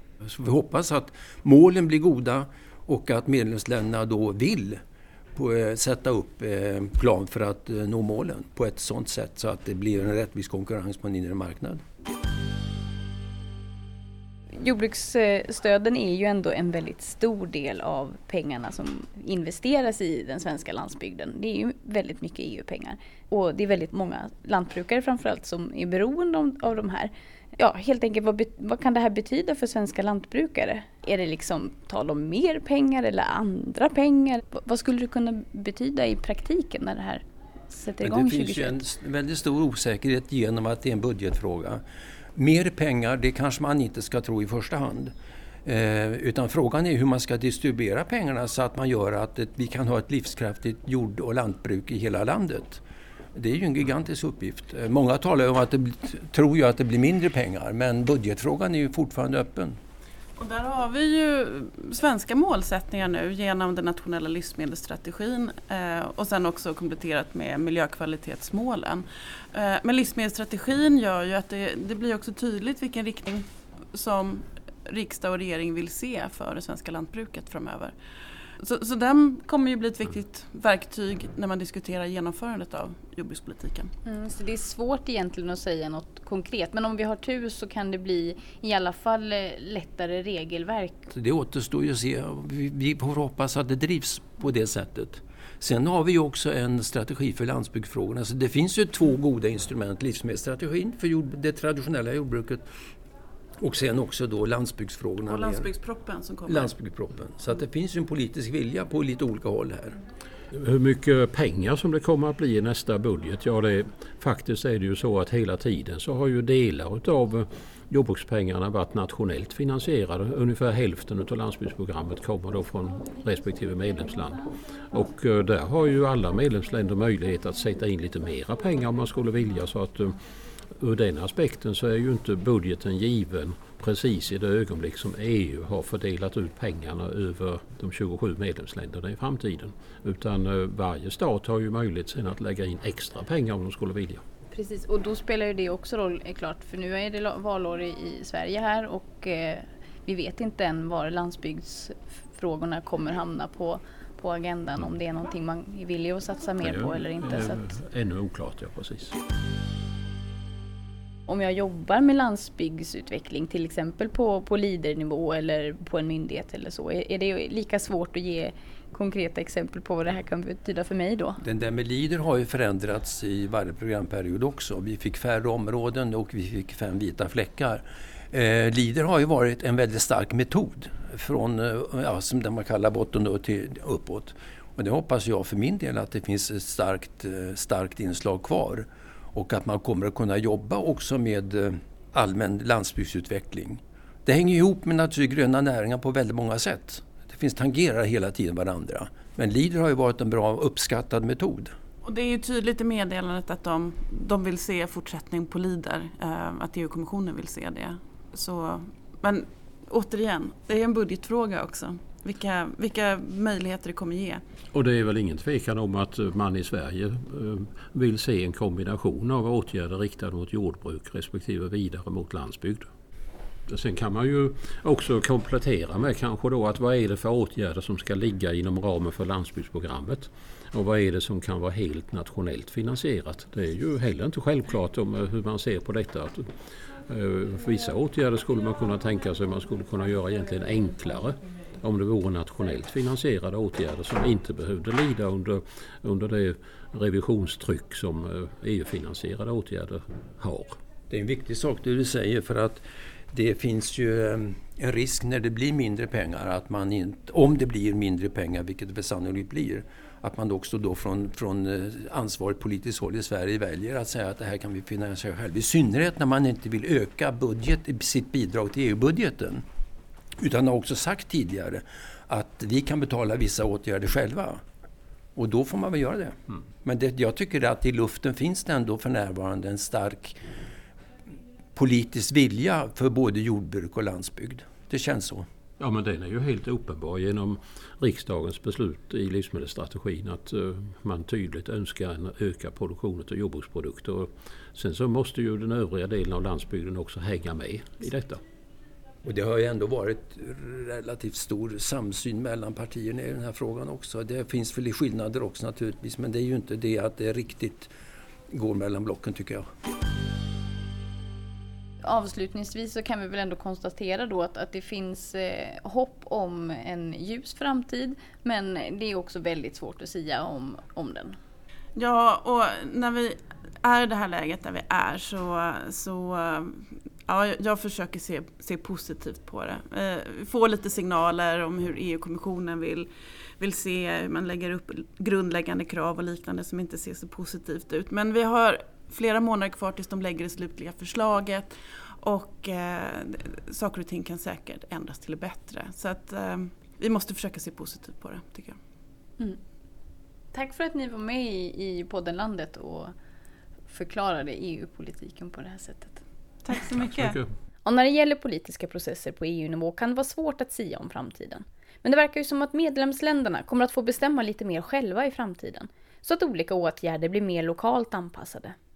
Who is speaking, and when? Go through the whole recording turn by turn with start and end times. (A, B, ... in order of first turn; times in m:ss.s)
0:00.2-0:04.8 A
0:05.4-0:11.8 A
0:14.6-0:38.8 B
0:38.0-0:41.8 A
0:42.4-0:45.1 A
0:45.6-0:52.8 A
0:53.4-0:59.8 A
1:00.4-1:18.0 C
1:18.6-1:23.9 C
1:24.0-1:31.1 B
1:31.1-1:42.6 A
1:43.6-1:45.7 A
1:45.3-1:46.7 C
1:46.5-1:50.0 A
1:50.5-2:10.2 D
2:10.8-2:24.2 D
2:24.5-2:37.7 B
2:36.6-2:39.2 D
2:41.3-2:51.4 B
2:51.4-3:21.7 A
3:22.0-3:34.4 C
3:34.7-3:42.9 D
3:43.7-3:56.5 D
3:57.1-4:10.8 D
4:11.1-4:29.6 A
4:30.4-4:34.6 A
4:35.4-4:40.4 A
4:41.8-4:45.4 A
4:45.8-4:58.4 D
4:59.2-5:07.9 A
5:08.5-5:09.6 A
5:12.0-5:21.4 B
5:22.0-5:33.1 C
5:33.6-5:48.8 C
5:50.5-5:53.1 B
5:53.9-5:56.2 B
5:56.6-5:57.4 C
5:57.1-5:57.5 D
5:57.8-6:08.8 B